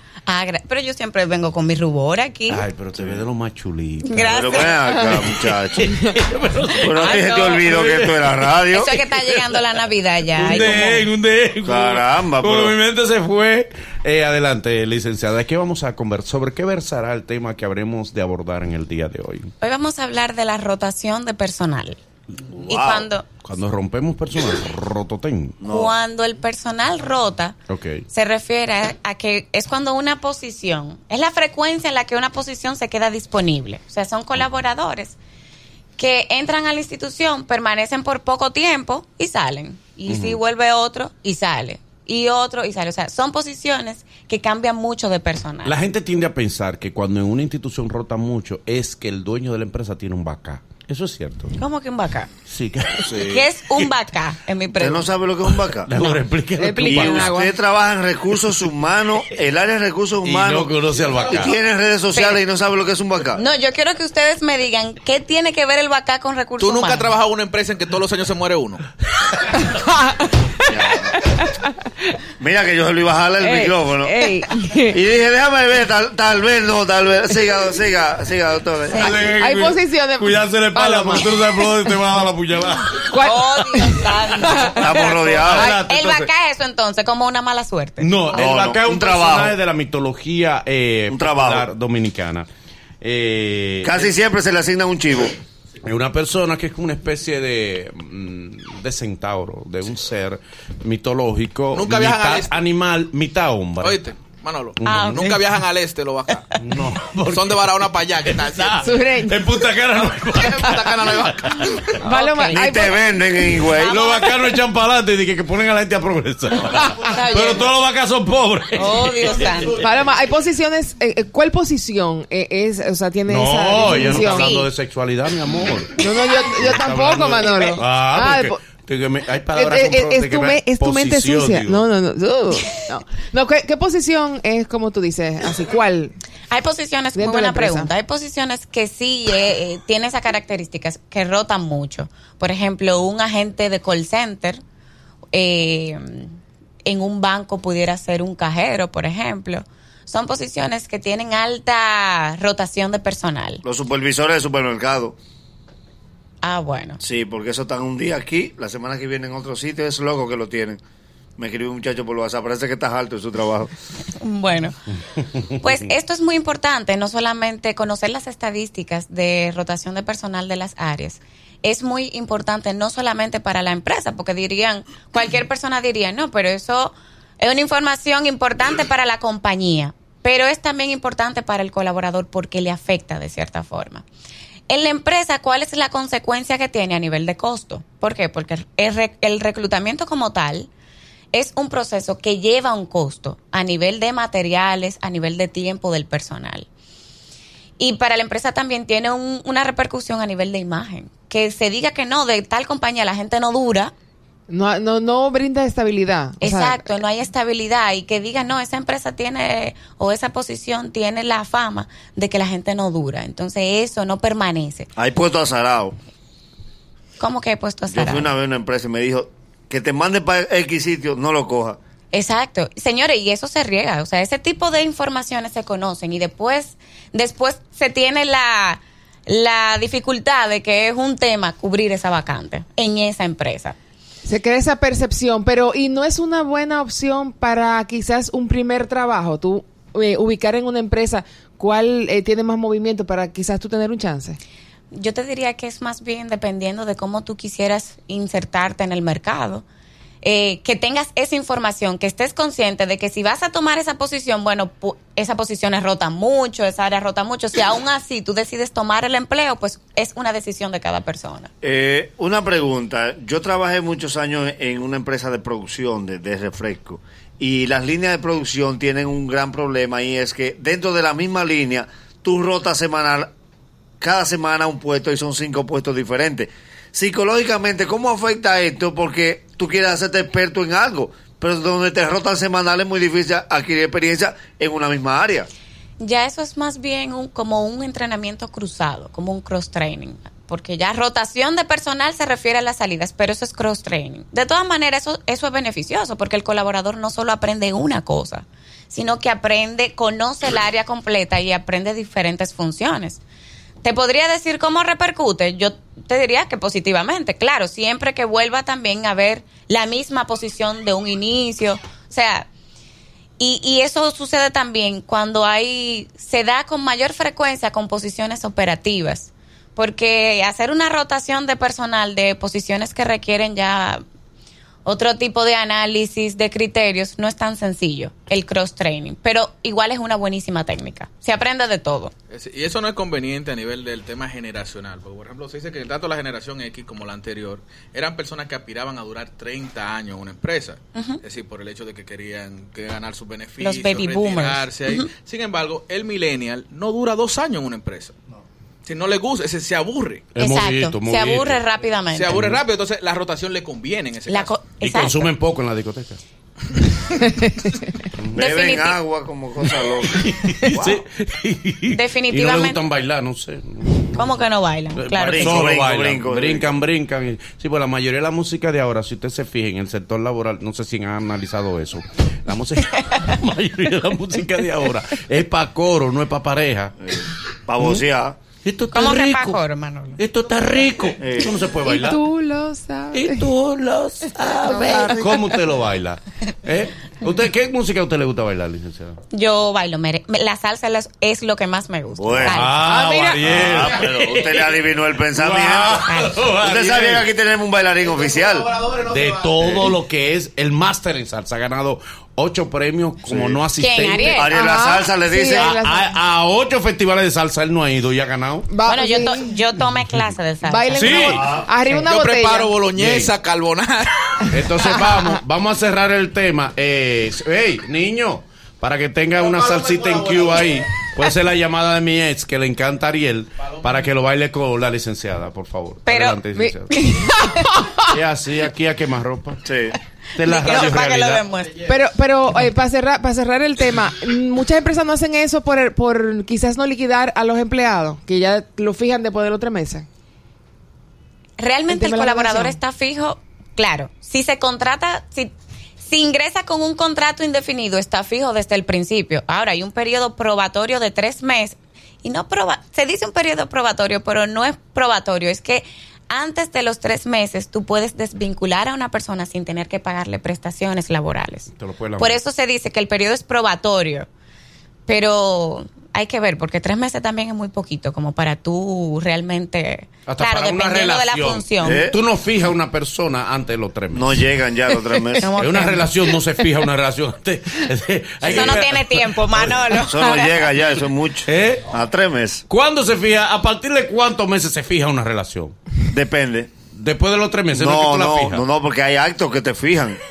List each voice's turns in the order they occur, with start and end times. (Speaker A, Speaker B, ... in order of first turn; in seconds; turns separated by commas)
Speaker A: 0.3-2.6, Speaker B: 2.5-4.5, Speaker A: 4.0-5.0, Speaker C: 4.3-6.0, Speaker B: 5.8-7.0, Speaker C: 6.8-8.9, Speaker A: 7.0-7.8, Speaker A: 8.7-11.1, Speaker B: 10.3-19.5, Speaker C: 11.6-12.8, Speaker A: 19.6-22.0, Speaker A: 22.6-23.3, Speaker C: 22.7-23.1, Speaker B: 23.4-25.6, Speaker C: 25.6-25.9, Speaker A: 25.6-27.6, Speaker A: 28.1-35.2, Speaker A: 36.0-45.8, Speaker B: 45.6-51.5, Speaker A: 51.6-52.3, Speaker B: 52.5-53.0, Speaker C: 53.1-53.5, Speaker A: 53.1-55.1, Speaker C: 54.8-55.9, Speaker B: 55.7-57.3, Speaker D: 55.9-57.5, Speaker C: 56.8-60.7, Speaker B: 60.2-61.5, Speaker C: 61.2-63.4, Speaker A: 62.1-62.4, Speaker A: 63.4-67.1, Speaker E: 66.6-68.8, Speaker D: 69.6-72.1, Speaker C: 70.7-71.2, Speaker C: 72.4-74.1, Speaker D: 73.4-75.0, Speaker C: 74.9-79.2, Speaker D: 78.9-82.2, Speaker B: 79.1-82.9, Speaker D: 82.9-85.8, Speaker A: 83.2-88.4, Speaker C: 84.8-85.7, Speaker B: 85.7-86.3, Speaker B: 88.0-92.5, Speaker C: 88.3-89.5, Speaker C: 91.1-91.7, Speaker B: 93.0-93.9, Speaker C: 93.8-95.4, Speaker B: 95.8-104.0, Speaker E: 101.7-102.6, Speaker E: 103.8-106.5, Speaker A: 104.8-105.4, Speaker B: 106.6-107.5, Speaker E: 107.3-108.9, Speaker B: 108.5-110.6, Speaker D: 108.8-109.5, Speaker E: 110.3-111.9, Speaker D: 110.7-110.9, Speaker D: 112.0-113.0, Speaker A: 112.0-112.7, Speaker C: 112.5-113.9, Speaker A: 113.7-114.6, Speaker B: 113.9-119.3, Speaker D: 116.8-117.0, Speaker A: 117.0-117.7, Speaker A: 118.8-119.8, Speaker D: 119.8-124.5, Speaker B: 123.3-125.9, Speaker A: 123.9-124.7, Speaker D: 126.0-128.7, Speaker B: 126.7-131.9, Speaker D: 129.5-136.2, Speaker A: 136.5-144.6, Speaker D: 137.2-137.9, Speaker A: 145.3-153.6, Speaker C: 153.6-155.2, Speaker A: 156.4-157.0, Speaker C: 157.0-160.8, Speaker C: 161.4-163.7, Speaker A: 164.2-164.8, Speaker A: 165.5-184.1, Speaker A: 184.7-190.7, Speaker A: 191.3-196.7, Speaker A: 197.8-203.9, Speaker D: 204.5-206.9, Speaker A: 206.4-214.9, Speaker C: 215.0-216.0, Speaker A: 217.2-218.3, Speaker C: 217.9-221.8, Speaker A: 222.1-233.8, Speaker D: 234.2-244.4, Speaker A: 244.9-249.7, Speaker A: 250.2-261.5, Speaker C: 261.6-273.3, Speaker C: 274.0-285.5, Speaker A: 286.0-303.2, Speaker A: 303.8-312.5, Speaker A: 313.4-324.0, Speaker A: 324.9-332.1, Speaker E: 332.3-348.1, Speaker A: 340.9-341.2, Speaker A: 343.6-345.1, Speaker E: 348.9-350.3, Speaker B: 350.4-351.6, Speaker A: 350.4-352.4, Speaker E: 352.1-354.6, Speaker A: 354.3-355.3, Speaker B: 354.8-356.2, Speaker C: 358.4-361.0, Speaker A: 358.4-359.0, Speaker B: 360.1-364.3, Speaker A: 361.9-362.8, Speaker A: 364.1-365.7, Speaker B: 365.0-376.9, Speaker C: 365.3-366.7, Speaker C: 377.0-378.4, Speaker B: 378.6-379.5, Speaker A: 378.9-380.2, Speaker B: 380.2-382.2, Speaker C: 381.2-381.6, Speaker D: 381.8-383.5, Speaker B: 383.2-389.2, Speaker C: 384.7-385.3, Speaker A: 389.3-392.9, Speaker C: 392.1-392.6, Speaker B: 392.5-394.7, Speaker D: 392.8-393.4, Speaker C: 393.4-396.1, Speaker B: 395.4-397.2, Speaker A: 396.1-396.4, Speaker C: 396.6-398.7, Speaker B: 399.1-404.4, Speaker C: 399.6-399.9, Speaker C: 403.3-403.6, Speaker A: 403.8-404.5, Speaker C: 404.2-405.8, Speaker D: 404.5-406.1, Speaker B: 405.8-408.7, Speaker D: 408.7-409.6, Speaker A: 408.9-411.3, Speaker D: 410.6-412.9, Speaker E: 410.9-414.6, Speaker C: 411.3-411.7, Speaker B: 414.6-426.8, Speaker D: 414.7-415.4, Speaker E: 419.8-420.4, Speaker A: 426.1-427.8, Speaker D: 426.5-428.1, Speaker B: 428.1-429.6, Speaker C: 429.6-429.9, Speaker B: 430.4-431.4, Speaker A: 430.4-431.9, Speaker D: 431.9-440.1, Speaker A: 441.6-464.3, Speaker D: 441.9-442.8, Speaker B: 461.7-462.4, Speaker A: 465.1-472.0, Speaker B: 470.3-474.3, Speaker C: 471.8-472.1, Speaker C: 474.1-475.5, Speaker A: 475.4-476.3, Speaker B: 475.6-479.9, Speaker C: 478.4-478.9, Speaker A: 478.5-480.4, Speaker C: 479.9-482.6, Speaker B: 481.5-481.8, Speaker B: 482.7-485.7, Speaker C: 486.1-486.7, Speaker B: 486.9-488.6, Speaker C: 487.8-490.2